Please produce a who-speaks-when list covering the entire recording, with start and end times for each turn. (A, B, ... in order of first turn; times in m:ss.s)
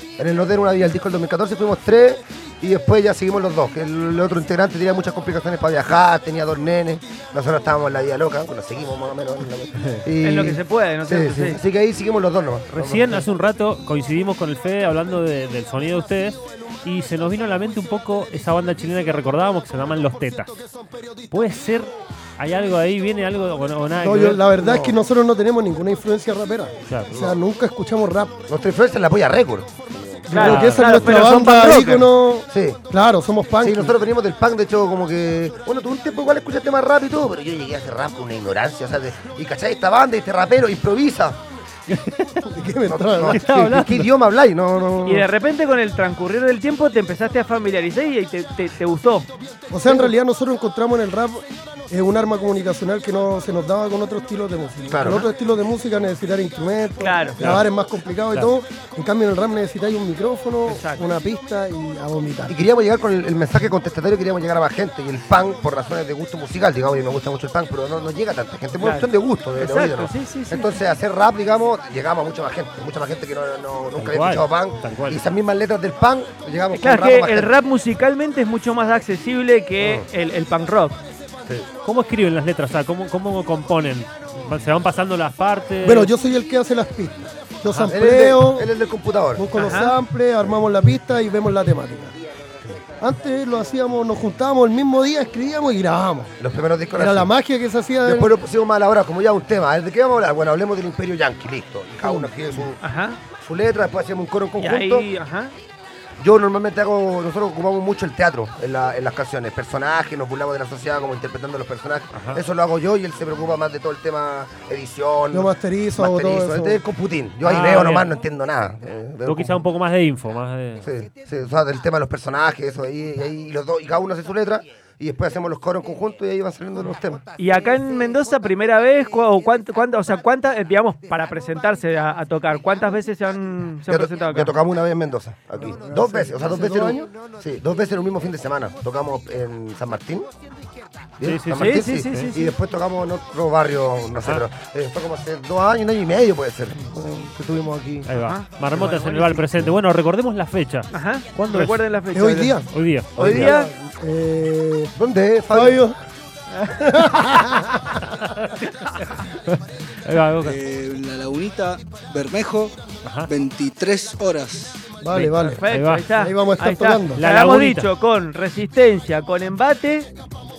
0:00.2-0:13.3 A
0:10.2-0:11.6 B
0:12.7-0:20.5 C
0:21.3-0:24.6 C
0:24.0-0:28.4 D
0:24.6-0:24.9 A
0:26.9-0:27.1 C
0:27.1-0:27.4 A
0:28.5-0:30.4 A
0:30.3-0:34.0 D
0:30.3-0:32.1 B
0:30.4-0:30.9 C
0:32.5-0:32.8 A
0:33.6-0:41.4 A
0:41.9-0:42.6 C
0:42.5-0:43.7 D
0:42.9-0:45.3 A
0:43.2-0:44.1 C
0:45.0-0:49.3 B
0:49.7-1:02.5 D
0:54.9-0:55.2 A
0:57.0-0:57.5 B
1:00.7-1:01.0 B
1:02.5-1:17.5 A
1:08.8-1:10.8 B
1:14.0-1:15.2 C
1:16.7-1:21.0 B
1:19.8-1:20.1 A
1:21.8-1:26.1 C
1:25.8-1:28.7 D
1:27.9-1:29.5 A
1:29.4-1:32.1 D
1:29.6-1:29.9 B
1:33.0-1:36.3 D
1:36.4-1:37.3 A
1:37.0-1:38.3 D
1:38.0-1:42.8 A
1:42.0-1:42.6 D
1:42.8-1:43.2 B
1:43.3-1:45.1 A
1:44.6-1:45.5 B
1:46.2-1:59.6 A
1:52.1-1:52.4 C
1:55.3-1:56.8 D
1:57.4-1:58.1 C
1:59.2-2:00.9 C
2:00.8-2:07.2 A
2:07.4-2:14.6 B
2:13.9-2:20.3 A
2:15.6-2:17.1 D
2:21.2-2:28.1 A
2:21.2-2:22.3 C
2:21.5-2:22.6 B
2:28.0-2:31.8 C
2:28.2-2:29.4 B
2:30.9-2:32.6 B
2:32.1-2:32.7 D
2:32.7-2:33.4 C
2:33.2-2:33.5 A
2:33.2-2:33.7 B
2:33.4-2:34.9 D
2:35.0-2:35.8 A
2:35.5-2:36.0 D
2:36.7-2:38.0 D
2:38.1-2:40.6 C
2:38.7-2:38.9 B
2:40.4-2:44.8 E
2:43.0-2:43.3 C
2:45.0-2:47.2 D
2:45.1-2:46.1 C
2:45.5-2:50.1 B
2:47.1-2:47.9 C